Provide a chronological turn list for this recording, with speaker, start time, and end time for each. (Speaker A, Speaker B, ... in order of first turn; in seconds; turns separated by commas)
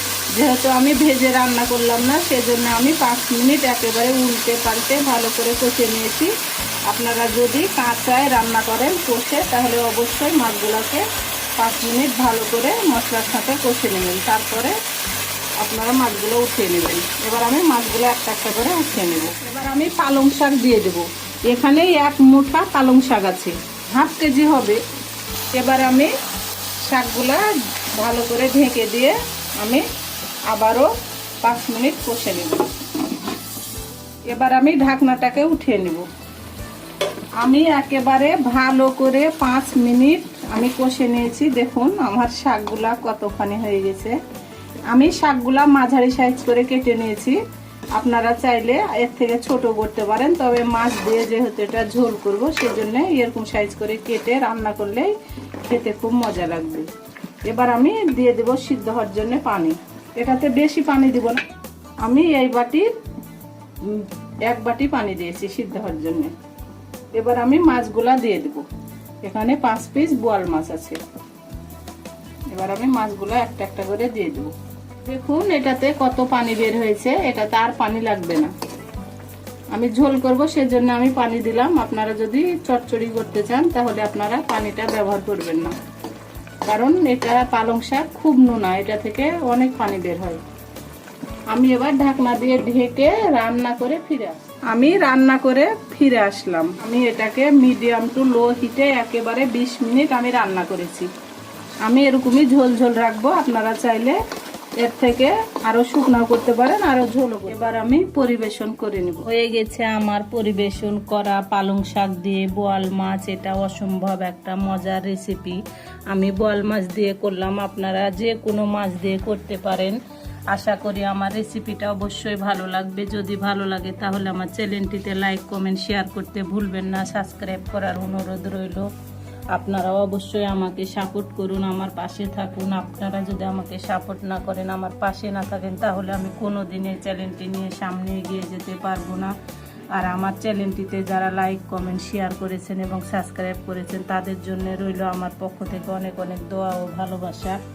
Speaker A: 0.3-6.3, Speaker A: 6.8-11.0, Speaker A: 11.6-14.8, Speaker A: 15.6-24.8, Speaker A: 25.5-26.1, Speaker A: 26.8-29.9, Speaker A: 30.4-30.9, Speaker A: 31.4-32.7, Speaker A: 34.3-36.1, Speaker A: 37.4-44.2, Speaker A: 44.9-47.4, Speaker A: 47.9-56.9, Speaker A: 57.4-61.4, Speaker A: 62.0-62.9, Speaker A: 63.8-66.3, Speaker A: 67.1-68.7, Speaker A: 69.2-71.0, Speaker A: 72.5-78.5, Speaker A: 79.7-85.8, Speaker A: 86.6-90.4, Speaker A: 91.5-101.1, Speaker A: 101.8-104.2, Speaker A: 104.8-120.0, Speaker A: 120.5-128.9, Speaker A: 129.5-139.3, Speaker A: 139.9-147.6